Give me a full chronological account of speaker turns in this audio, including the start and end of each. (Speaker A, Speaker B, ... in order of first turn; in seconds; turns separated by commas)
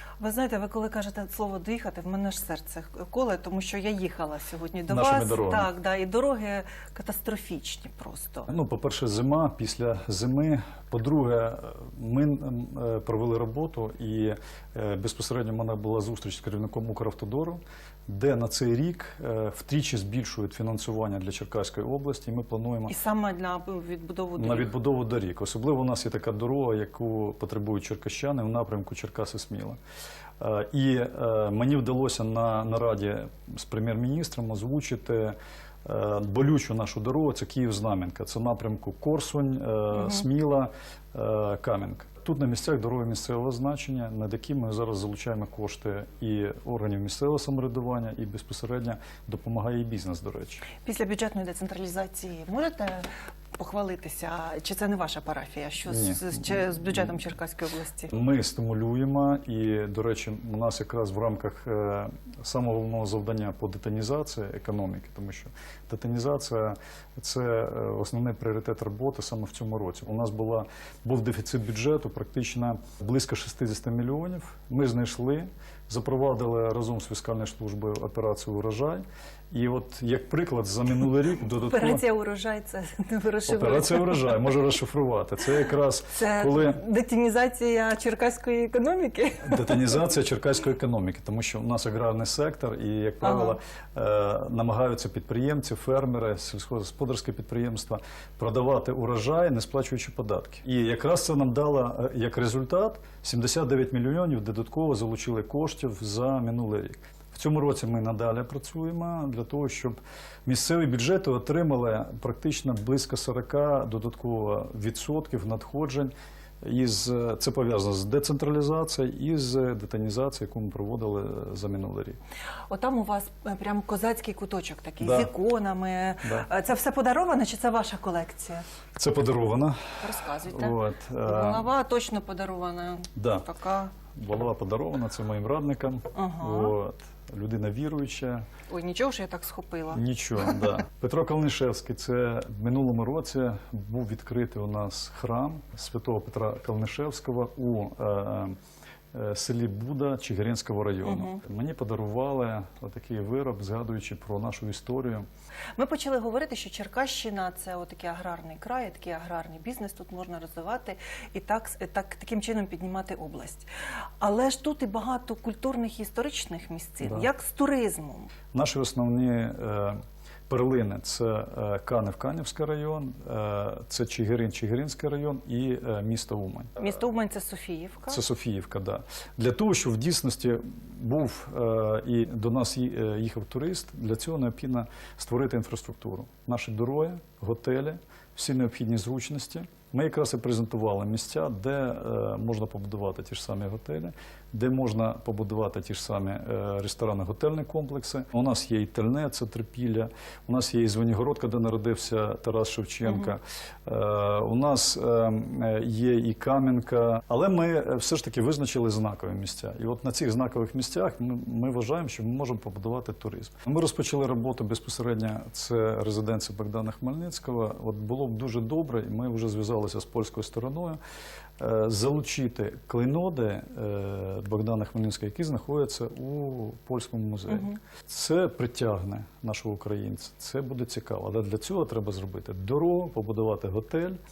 Speaker A: 0.2-8.5, Speaker B: 4.9-5.7, Speaker B: 8.5-22.9, Speaker A: 22.9-24.7, Speaker B: 24.4-29.8, Speaker B: 30.4-50.7, Speaker A: 39.9-40.2, Speaker A: 50.7-58.1, Speaker B: 55.9-56.6, Speaker B: 58.1-82.0, Speaker A: 81.5-84.6, Speaker B: 83.5-86.8, Speaker A: 86.1-90.0, Speaker B: 89.4-122.2, Speaker A: 93.2-93.6, Speaker A: 122.7-128.6, Speaker B: 125.0-125.3, Speaker B: 129.0-129.9, Speaker A: 130.0-133.9, Speaker B: 130.4-131.7, Speaker B: 133.2-133.4, Speaker B: 134.1-138.4, Speaker A: 136.1-136.8, Speaker A: 138.7-140.0, Speaker B: 139.9-148.6, Speaker B: 149.1-155.3, Speaker A: 151.0-151.4, Speaker A: 155.8-163.7, Speaker A: 164.2-168.3, Speaker B: 167.0-167.3, Speaker B: 168.5-176.8, Speaker A: 176.8-178.2, Speaker B: 178.1-221.0, Speaker A: 203.1-203.3, Speaker B: 221.6-234.2, Speaker A: 227.5-227.8